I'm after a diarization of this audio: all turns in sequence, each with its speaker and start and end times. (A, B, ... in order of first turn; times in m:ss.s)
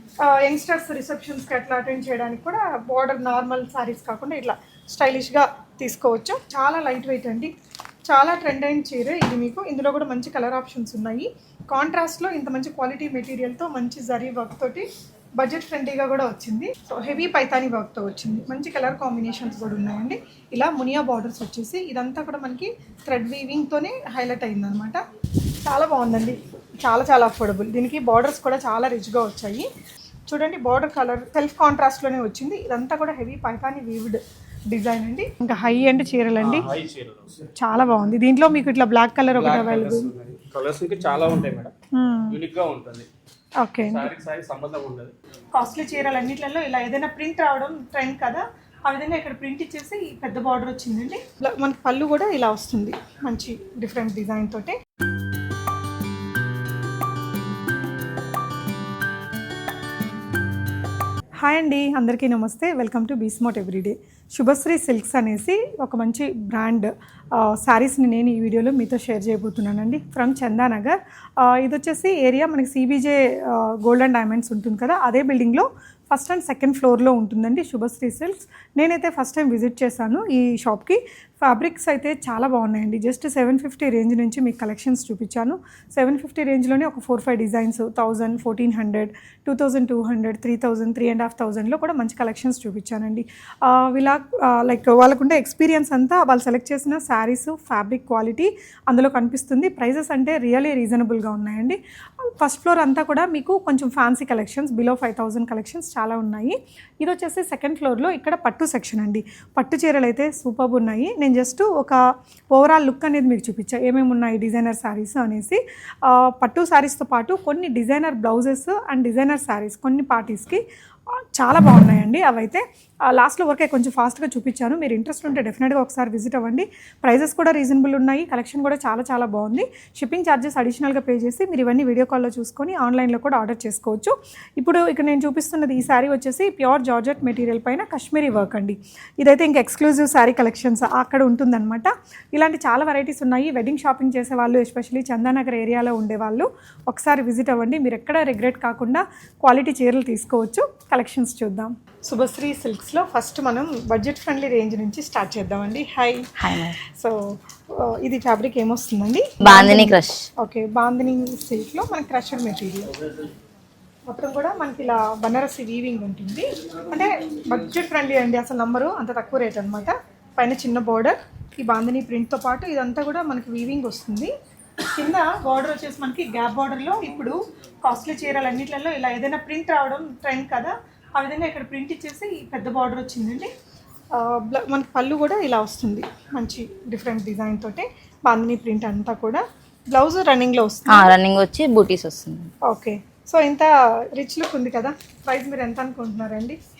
0:00.2-0:07.5 A
0:08.1-0:25.0 A
0:25.6-0:29.7 A
0:30.3-0:36.7 A
0:36.4-0:37.5 B
0:37.5-0:40.1 A
0:39.3-0:41.7 B
0:41.9-0:42.4 A
0:42.3-0:43.1 B
0:43.6-0:44.1 A
0:43.8-0:45.1 B
0:45.5-0:54.8 A
1:01.4-1:52.0 A
1:52.5-2:36.3 A
2:36.4-2:36.8 C
2:36.8-2:43.0 A
2:39.4-2:40.3 C
2:44.1-2:54.3 A
2:54.9-3:03.5 A
3:04.1-3:11.1 A
3:10.9-3:12.5 C
3:12.6-3:16.6 A